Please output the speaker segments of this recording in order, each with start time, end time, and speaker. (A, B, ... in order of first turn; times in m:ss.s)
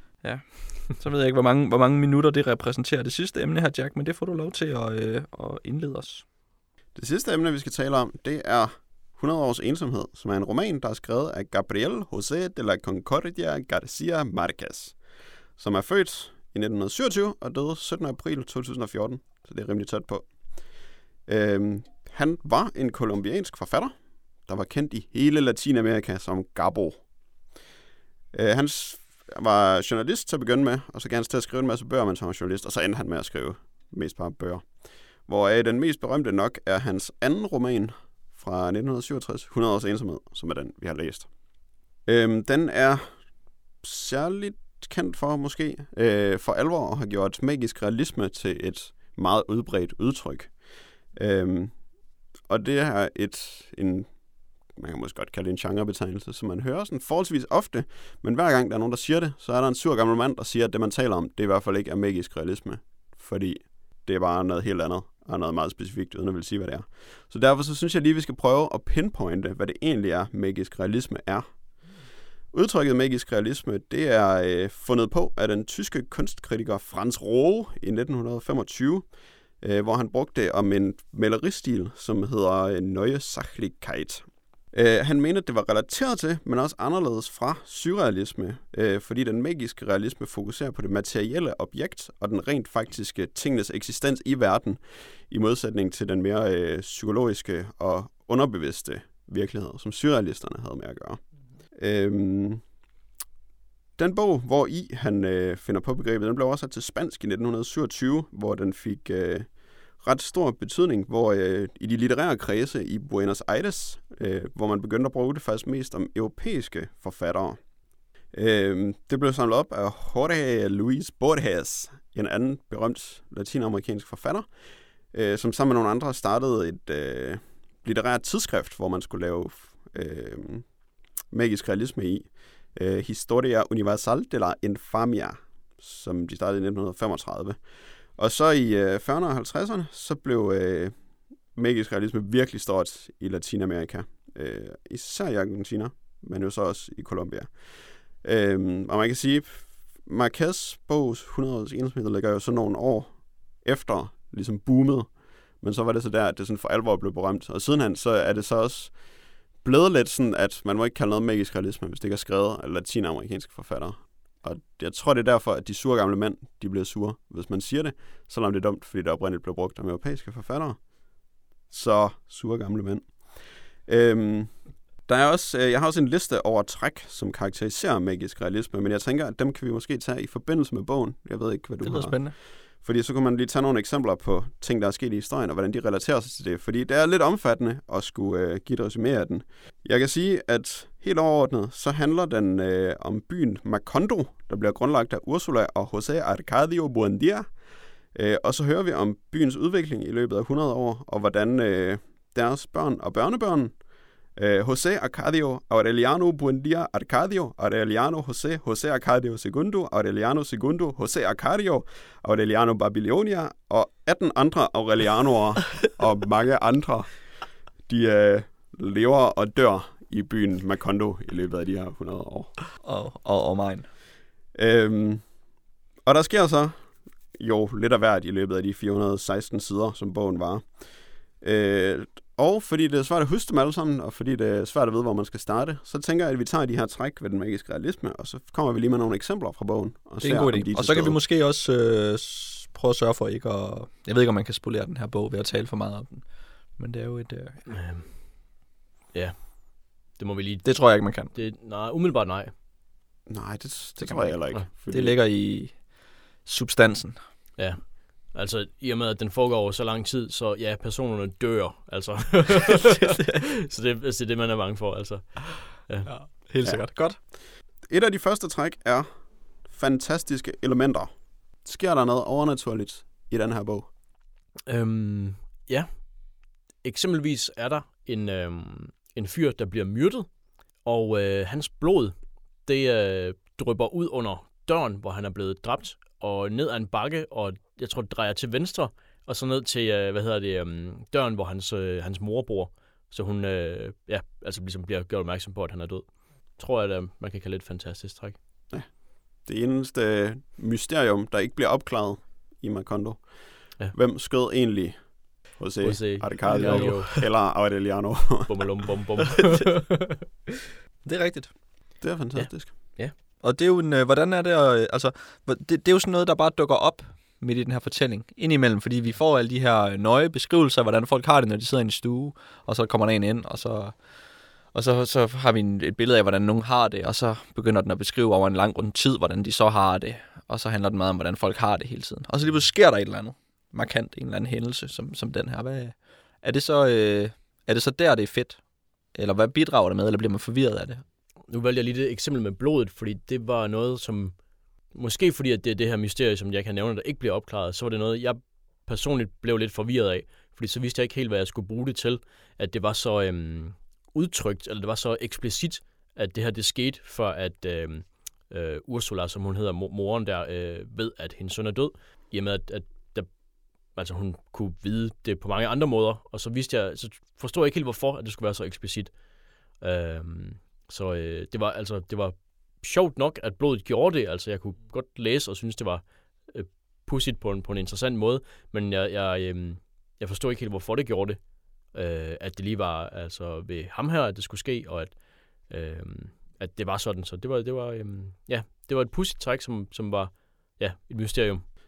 0:00.2-0:06.2 A
0:06.9-0:15.0 B
0:15.5-0:27.1 B
0:28.3-0:41.4 B
0:42.0-0:51.9 B
0:52.4-1:11.6 B
1:12.5-1:42.6 B
1:44.0-1:57.6 B
1:58.3-2:04.6 B
2:05.1-2:10.7 B
2:11.3-2:50.9 B
2:51.7-3:23.8 B
3:01.8-3:02.4 A
3:24.4-3:42.7 B
3:42.8-3:43.9 A
3:44.5-3:45.4 B
3:46.0-4:01.2 B
4:00.2-4:07.7 A
4:07.6-4:08.6 C
4:09.1-4:12.5 C
4:10.6-4:11.3 A
4:13.3-4:15.2 B
4:14.0-4:15.9 A
4:16.4-4:17.2 A
4:17.6-4:26.1 C
4:23.0-4:23.3 A
4:26.0-4:27.2 A
4:26.6-4:33.9 B
4:34.6-4:58.4 C
4:58.7-5:08.8 B
5:05.8-5:07.2 C
5:06.4-5:07.3 A
5:08.5-5:10.2 C
5:11.0-5:11.6 A
5:12.0-5:13.0 B
5:12.3-5:13.1 C
5:13.4-5:41.0 A
5:41.5-6:31.6 C